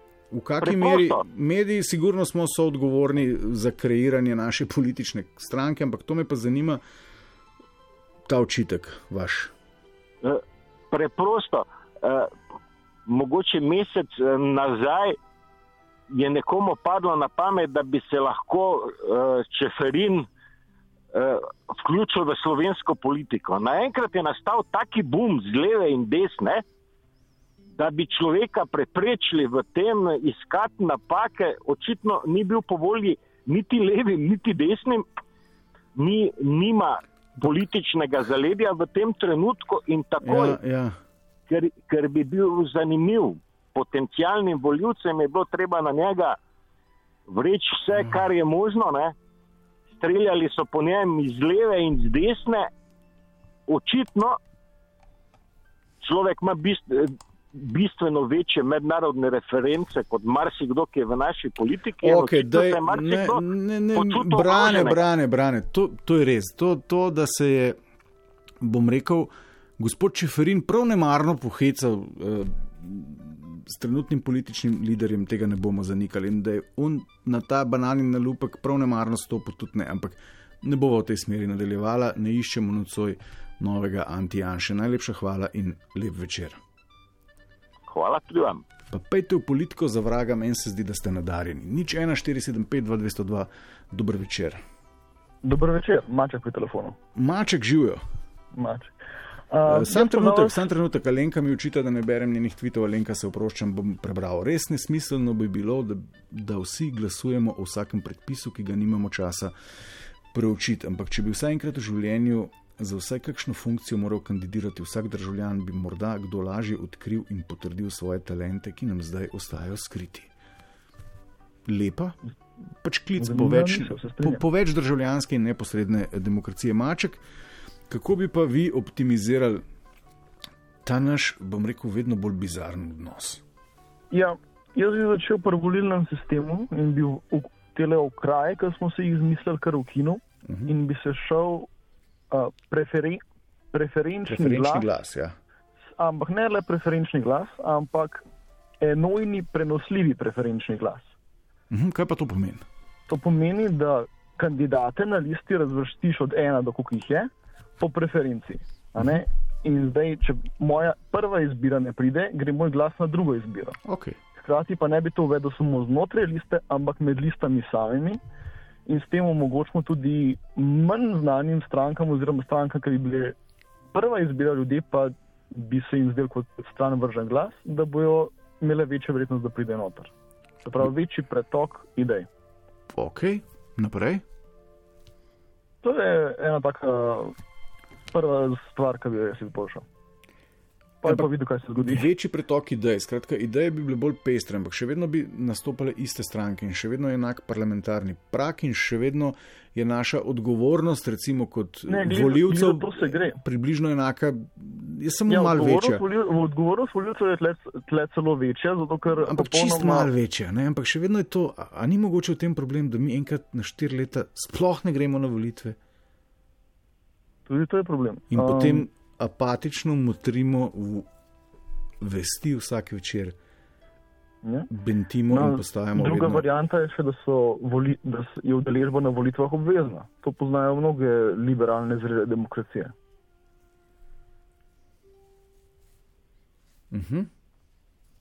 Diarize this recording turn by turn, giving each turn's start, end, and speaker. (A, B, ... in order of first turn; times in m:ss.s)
0:00.3-0:06.8 A
0:00.6-0:01.2 B
0:08.3-0:09.5 A
0:10.2-0:12.3 B
0:13.0-0:15.2 B
0:16.1-0:20.3 B
0:21.1-0:26.6 B
0:27.8-0:35.0 B
0:36.0-0:40.6 B
0:40.2-0:41.0 A
0:41.5-0:46.4 B
0:47.3-0:49.1 B
0:50.0-0:52.7 B
0:53.7-0:54.4 B
0:56.0-1:05.0 B
1:02.0-1:07.8 A
1:08.6-1:26.6 A
1:27.9-1:28.6 B
1:28.9-1:34.6 A
1:35.4-1:37.0 C
1:37.2-1:38.0 A
1:38.5-1:38.9 C
1:39.5-1:40.6 C
1:39.6-1:49.5 A
1:50.3-2:00.3 A
2:01.6-2:02.2 A
2:02.8-2:07.2 A
2:03.2-2:04.4 C
2:07.9-2:09.6 A
2:10.8-2:13.4 A
2:14.1-2:21.7 C
2:20.5-2:20.7 A
2:22.3-2:23.2 C
2:23.7-2:24.9 C
2:24.3-2:25.3 A
2:26.0-2:28.2 C
2:28.8-2:31.1 C
2:31.7-2:32.6 A
2:33.1-2:43.8 C
2:43.8-2:44.2 A
2:44.4-2:48.2 C
2:48.9-2:53.4 C
2:53.9-3:00.1 C
3:00.6-3:02.3 C
3:02.9-3:04.2 A
3:05.8-3:07.3 C
3:08.1-3:09.8 C
3:11.0-3:12.1 C
3:11.0-3:26.0 A
3:21.9-3:23.4 C
3:25.3-3:30.1 C
3:29.1-3:35.8 A
3:37.4-3:38.9 C
3:38.3-3:41.1 A
3:42.0-3:43.3 A
3:44.4-3:44.7 C
3:44.7-3:46.4 A
3:45.3-3:52.9 C
3:56.9-3:57.3 A